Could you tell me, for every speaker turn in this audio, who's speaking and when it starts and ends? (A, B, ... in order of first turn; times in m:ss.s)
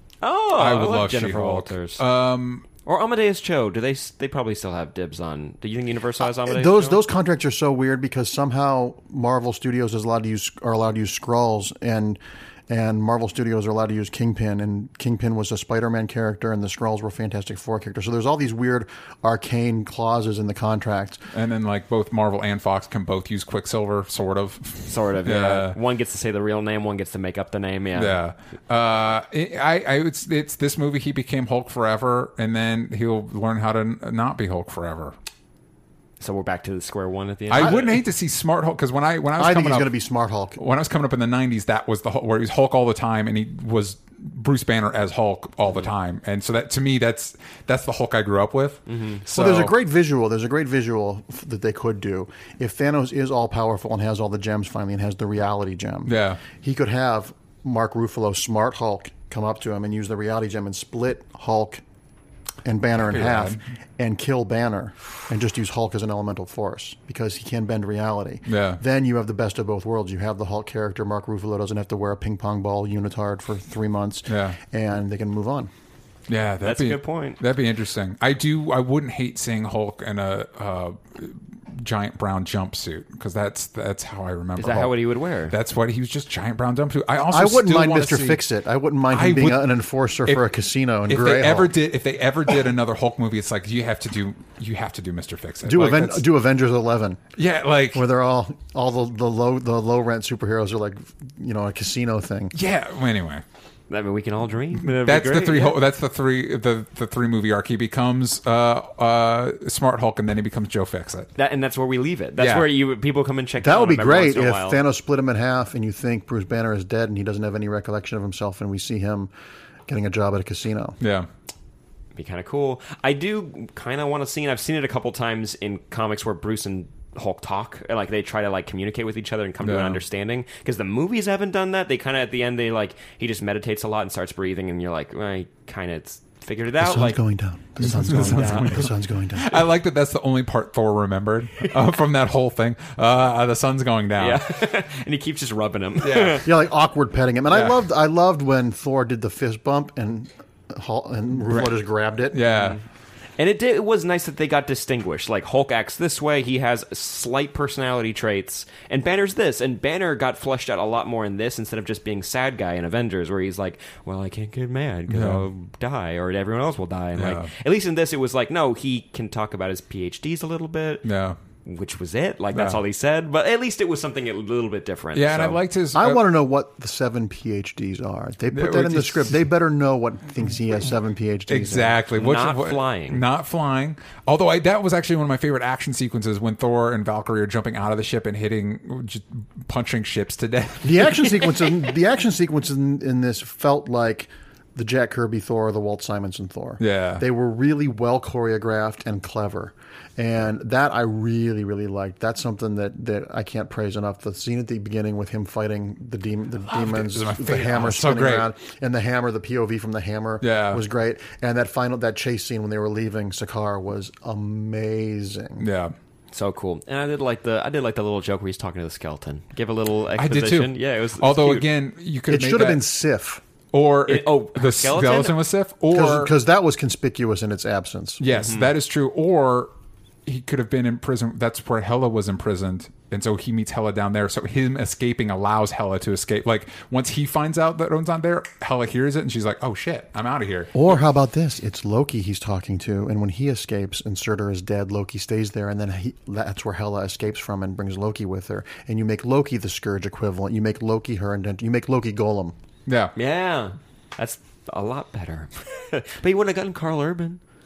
0:00.2-0:02.0 A
0:00.6-0:02.7 B
0:02.8-0:07.0 A
0:06.2-0:21.2 C
0:21.3-0:25.8 B
0:24.9-0:28.2 A
0:28.0-0:35.2 B
0:36.2-0:37.9 A
0:37.5-0:39.9 B
0:37.6-0:37.9 C
0:39.4-0:40.6 C
0:40.6-0:49.7 B
0:48.9-0:49.2 A
0:49.3-1:01.8 C
0:56.1-0:56.4 B
1:02.6-1:15.7 C
1:03.0-1:03.6 B
1:08.5-1:08.8 B
1:14.3-1:14.6 B
1:16.3-1:28.4 B
1:16.6-1:17.4 A
1:24.6-1:25.6 A
1:27.3-1:31.7 C
1:29.1-1:29.7 B
1:31.1-1:36.2 B
1:35.6-1:37.2 C
1:37.4-1:38.0 B
1:37.9-1:42.6 C
1:42.5-1:43.4 B
1:43.9-1:45.8 A
1:44.8-1:51.3 B
1:51.4-1:54.8 A
1:52.4-1:52.7 B
1:53.6-1:59.3 C
1:59.9-2:01.0 C
2:01.0-2:01.3 B
2:02.2-2:17.2 A
2:09.6-2:10.0 B
2:16.8-2:19.6 C
2:17.8-2:24.4 B
2:18.2-2:18.7 A
2:24.2-2:26.5 A
2:26.0-2:26.5 B
2:26.4-2:32.4 C
2:27.5-2:27.8 B
2:31.5-2:31.8 B
2:32.3-2:32.8 B
2:32.5-2:32.8 A
2:33.4-2:51.0 A
2:45.1-2:45.5 B
2:47.2-2:47.5 B
2:51.0-2:51.4 B
2:51.6-2:55.6 A
2:52.5-2:52.8 B
2:55.1-2:56.2 B
2:55.9-3:02.0 C
2:58.5-2:59.4 B
3:01.5-3:11.7 B
3:02.2-3:03.2 A
3:10.8-3:35.6 C
3:16.8-3:17.2 B
3:26.7-3:28.5 B
3:30.4-3:30.8 B
3:35.6-3:36.0 B
3:36.3-3:41.7 A
3:40.2-3:42.8 B
3:42.3-3:43.4 C
3:43.7-3:46.3 B
3:44.1-3:45.4 A
3:45.9-3:48.2 C
3:48.2-3:49.7 B
3:48.4-3:48.7 A
3:50.2-4:00.9 B
4:00.7-4:12.6 C
4:12.9-4:13.1 B
4:13.2-4:17.4 A